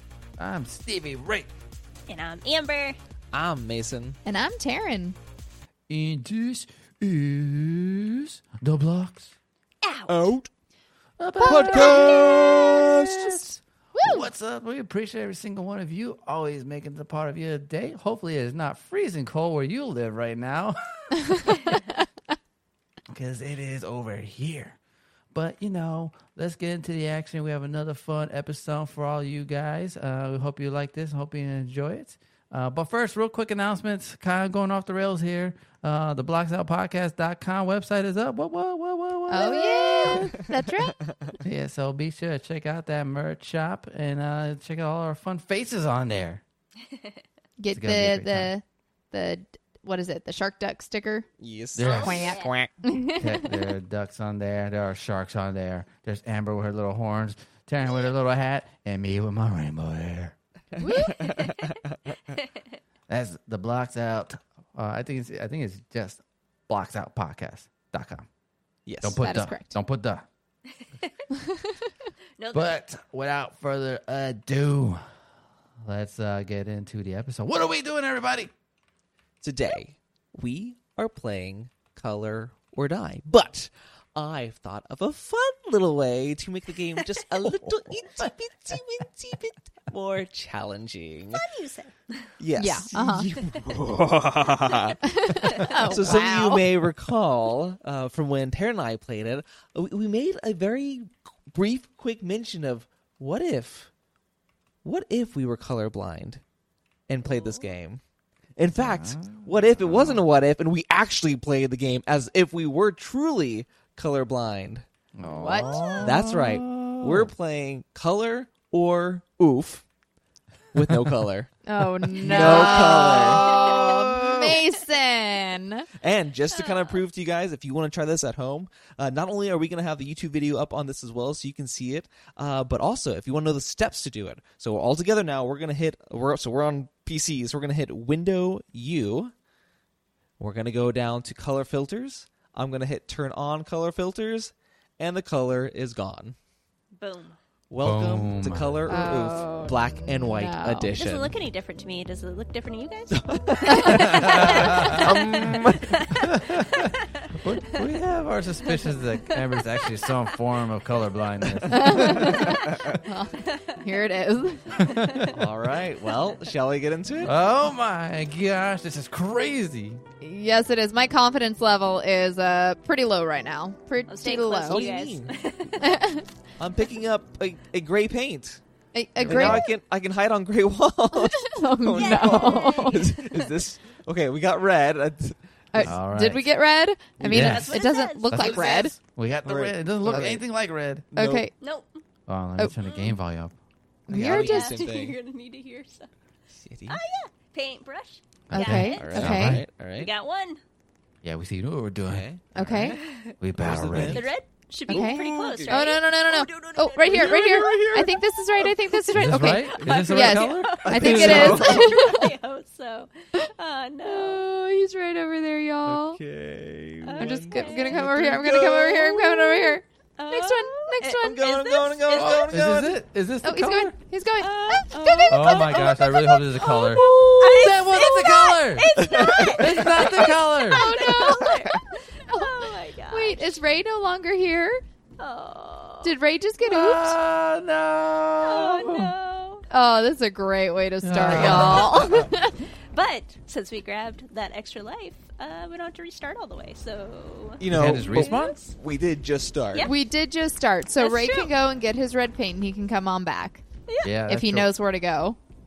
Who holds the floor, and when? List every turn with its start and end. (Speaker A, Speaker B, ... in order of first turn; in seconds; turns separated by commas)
Speaker A: 0.4-1.5, Speaker B: 2.1-3.0, Speaker C: 3.3-4.2, Speaker D: 4.2-5.2, Speaker A: 5.9-9.3, Speaker B: 9.8-10.2, Speaker C: 10.1-10.5, Speaker A: 11.2-21.1, Speaker D: 11.4-12.1, Speaker C: 11.4-13.5, Speaker B: 11.8-13.0, Speaker D: 13.9-14.3, Speaker D: 21.2-22.0, Speaker A: 23.1-24.8, Speaker A: 25.3-40.5, Speaker D: 39.3-41.0, Speaker A: 41.4-46.4, Speaker D: 47.6-51.3, Speaker A: 47.7-48.5, Speaker C: 51.4-52.7, Speaker A: 51.8-52.4, Speaker B: 51.8-52.5, Speaker D: 52.0-53.6, Speaker A: 53.1-60.4, Speaker D: 60.8-61.2, Speaker C: 60.9-62.3, Speaker B: 61.2-61.8, Speaker B: 62.3-62.7, Speaker A: 63.1-68.3, Speaker C: 68.9-69.2, Speaker A: 69.0-70.3, Speaker D: 69.2-69.8, Speaker B: 70.8-71.1, Speaker D: 71.3-71.9, Speaker B: 72.4-72.8, Speaker A: 72.5-75.0, Speaker A: 75.8-78.5, Speaker C: 79.4-91.4, Speaker B: 91.3-92.3, Speaker C: 92.4-103.9, Speaker D: 92.6-93.4, Speaker D: 95.0-96.7, Speaker B: 95.6-95.9, Speaker C: 104.8-106.4, Speaker C: 107.1-108.0, Speaker B: 107.2-107.7, Speaker C: 108.6-114.9, Speaker A: 108.8-110.3, Speaker A: 115.2-117.3, Speaker D: 115.2-116.1, Speaker B: 115.7-116.1, Speaker C: 116.0-119.8, Speaker C: 120.7-121.5, Speaker A: 120.8-121.2, Speaker D: 121.7-125.9, Speaker C: 122.1-124.6, Speaker A: 122.2-124.4, Speaker B: 122.4-124.2, Speaker C: 126.0-139.3, Speaker B: 126.5-127.0, Speaker C: 140.4-146.4, Speaker B: 147.0-147.4, Speaker C: 147.7-151.3, Speaker A: 147.8-149.2, Speaker D: 148.9-150.9, Speaker B: 151.0-157.8, Speaker C: 153.1-156.1, Speaker D: 153.7-154.0, Speaker A: 154.1-162.6, Speaker B: 158.7-159.8, Speaker C: 161.6-163.0, Speaker D: 161.7-164.8, Speaker B: 163.4-163.8, Speaker A: 164.8-165.5, Speaker C: 165.3-167.4, Speaker A: 167.2-170.0, Speaker D: 170.2-174.9, Speaker B: 174.1-176.0, Speaker C: 174.6-175.4, Speaker D: 175.8-176.2, Speaker C: 176.6-178.6, Speaker D: 178.9-179.7, Speaker A: 179.2-179.7, Speaker C: 179.3-185.9, Speaker D: 181.2-183.1, Speaker B: 181.9-183.5, Speaker D: 185.7-188.9, Speaker A: 185.8-186.5, Speaker C: 187.2-187.7, Speaker A: 187.2-187.7, Speaker B: 187.3-188.8, Speaker A: 188.3-191.1, Speaker C: 189.4-190.4, Speaker C: 191.1-191.5, Speaker D: 191.2-191.5, Speaker B: 191.6-192.0, Speaker A: 192.3-193.6, Speaker B: 192.8-193.2, Speaker D: 194.1-194.9, Speaker C: 194.1-195.2, Speaker B: 194.2-196.1, Speaker C: 196.6-197.0, Speaker B: 196.9-200.6, Speaker A: 198.5-199.7, Speaker D: 198.5-199.6, Speaker C: 199.0-200.1, Speaker A: 201.2-204.2, Speaker C: 202.1-202.4, Speaker D: 202.6-203.0, Speaker B: 203.0-203.4, Speaker C: 203.6-204.3, Speaker B: 204.1-208.1, Speaker C: 204.9-205.8, Speaker D: 204.9-212.3, Speaker C: 206.5-208.8, Speaker A: 209.1-211.7, Speaker B: 209.5-214.4, Speaker C: 209.8-210.2, Speaker C: 210.8-212.3, Speaker D: 214.0-216.2, Speaker C: 215.8-219.2, Speaker B: 217.0-218.0, Speaker D: 217.2-221.5, Speaker B: 219.3-222.6, Speaker C: 221.2-223.0, Speaker A: 222.2-223.9, Speaker D: 223.4-226.0, Speaker B: 224.4-233.6, Speaker A: 225.3-227.1, Speaker D: 226.6-227.7, Speaker A: 227.6-229.0, Speaker C: 229.0-229.8, Speaker A: 229.6-231.1, Speaker D: 230.7-234.8, Speaker B: 235.2-236.1, Speaker D: 236.0-237.2, Speaker A: 236.6-239.1, Speaker B: 238.4-239.7, Speaker D: 239.7-242.6, Speaker A: 241.0-242.0, Speaker B: 241.5-241.8, Speaker B: 242.9-248.8, Speaker C: 247.6-249.9, Speaker A: 247.7-248.6, Speaker D: 249.8-253.6, Speaker B: 251.0-251.5, Speaker B: 253.9-254.1, Speaker A: 254.0-254.7, Speaker D: 254.3-255.4